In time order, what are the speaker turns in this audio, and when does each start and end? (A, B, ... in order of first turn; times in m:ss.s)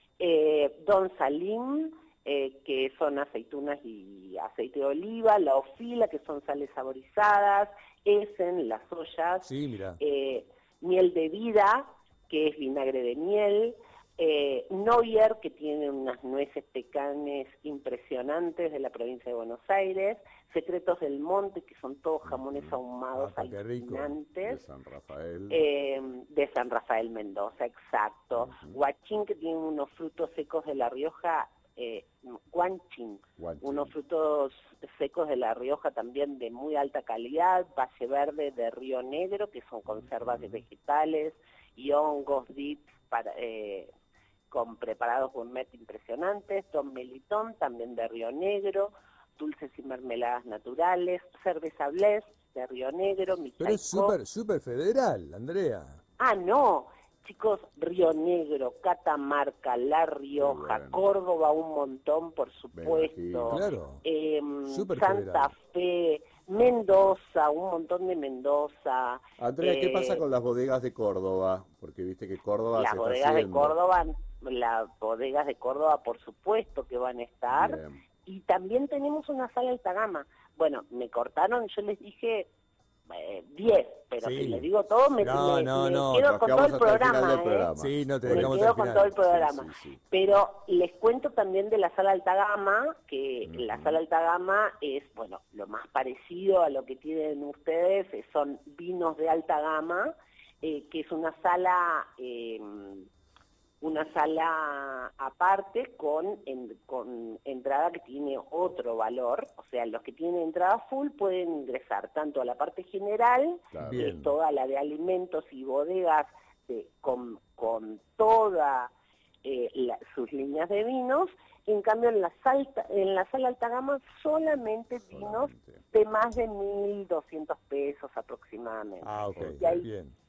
0:00.2-0:24.6 A
0:09.4-0:10.0 B
0:22.2-0:22.8 C
0:23.1-0:24.1 B
0:24.4-0:25.6 C
0:25.5-0:43.9 A
0:28.4-0:28.8 C
0:33.4-0:33.9 C
0:40.2-0:40.6 C
0:44.5-0:54.2 A
0:53.6-0:56.0 B
0:56.2-1:10.2 A
1:00.4-1:01.0 C
1:02.7-1:03.6 C
1:03.5-1:04.0 B
1:04.6-1:05.5 B
1:09.4-1:13.8 C
1:12.7-1:22.5 A
1:17.5-1:18.0 C
1:23.1-1:27.7 A
1:24.2-1:24.7 B
1:25.2-1:26.4 B
1:26.2-1:30.0 C
1:27.8-1:29.1 B
1:28.3-1:43.1 A
1:33.4-1:34.0 C
1:43.8-1:58.9 A
1:53.7-1:54.2 C
1:53.8-1:54.3 B
1:59.4-2:09.9 A
2:05.1-2:05.8 C
2:09.0-2:10.1 B
2:09.3-2:09.7 C